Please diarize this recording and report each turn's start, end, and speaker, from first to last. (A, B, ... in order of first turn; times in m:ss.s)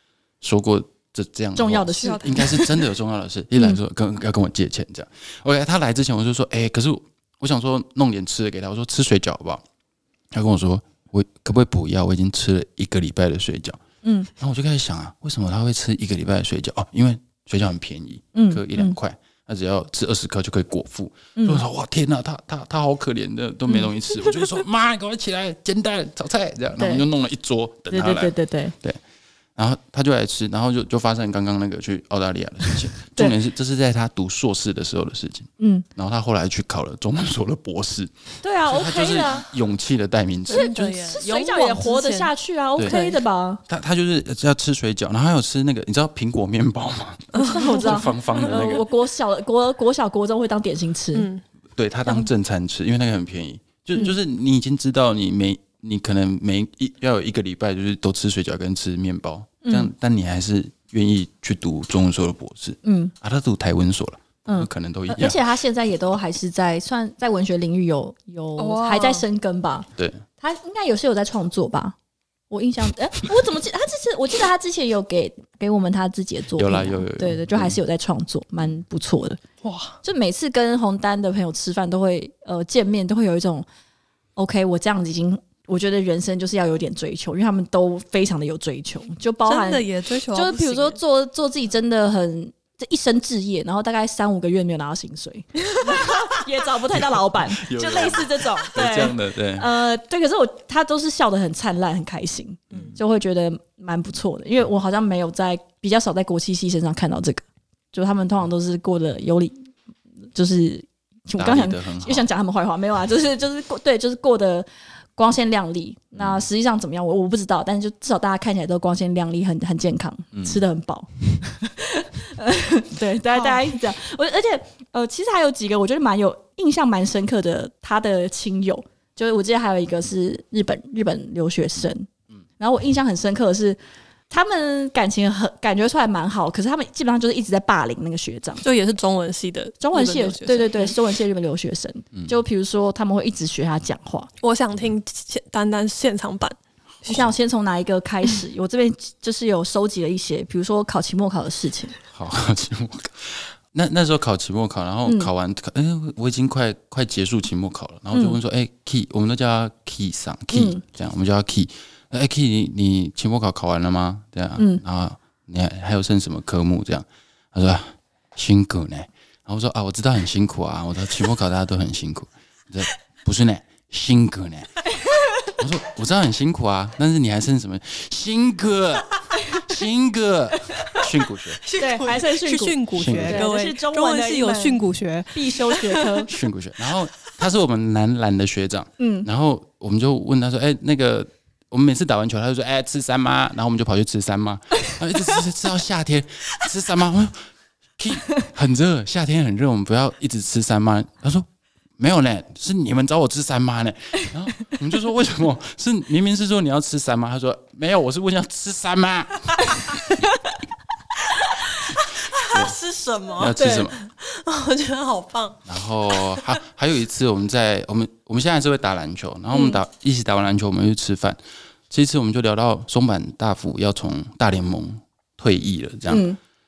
0:00.4-0:09.6 A
0:01.6-0:02.7 B
0:02.0-0:02.7 C
0:10.3-0:13.8 A
0:14.0-0:14.3 B
0:14.4-0:29.0 A
0:18.3-0:19.0 B
0:21.4-0:21.6 B
0:26.8-0:27.0 B
0:27.9-0:28.7 B
0:29.6-0:38.1 A
0:35.6-0:35.9 B
0:38.4-0:39.5 B
0:38.6-0:40.7 A
0:40.5-0:43.2 C
0:40.5-0:43.6 B
0:43.7-0:48.9 A
0:47.3-0:48.8 C
0:47.4-0:51.3 B
0:51.1-0:51.4 C
0:51.8-1:05.4 A
0:59.6-0:59.9 B
1:02.8-1:03.1 B
1:04.4-1:09.9 B
1:08.6-1:09.3 C
1:10.0-1:10.2 A
1:10.4-1:12.0 B
1:12.5-1:19.4 B
1:16.6-1:17.8 A
1:19.6-1:20.0 C
1:20.0-1:23.7 B
1:24.4-1:49.7 B
1:29.5-1:31.0 C
1:36.9-1:39.7 A
1:42.7-1:43.0 A
1:50.3-2:13.8 B
1:51.4-1:52.3 A
1:56.2-1:56.4 A
2:00.3-2:00.6 A
2:14.3-2:18.6 B
2:18.6-2:21.0 C
2:19.8-2:24.3 B
2:24.4-2:27.3 C
2:27.0-2:32.0 B
2:32.1-2:54.8 A
2:40.5-2:40.8 B
2:55.6-3:01.6 A
3:01.6-3:06.2 C
3:01.8-3:04.8 B
3:02.9-3:03.4 A
3:05.3-3:06.3 B
3:06.3-3:17.4 A
3:09.0-3:09.3 B
3:18.0-3:21.5 A
3:22.0-3:30.0 A
3:31.8-3:36.4 C
3:32.5-3:32.8 A
3:33.4-3:34.0 A
3:33.5-3:33.9 B
3:35.7-3:41.4 A
3:39.5-3:39.8 B
3:41.9-3:46.3 A
3:46.1-3:46.4 B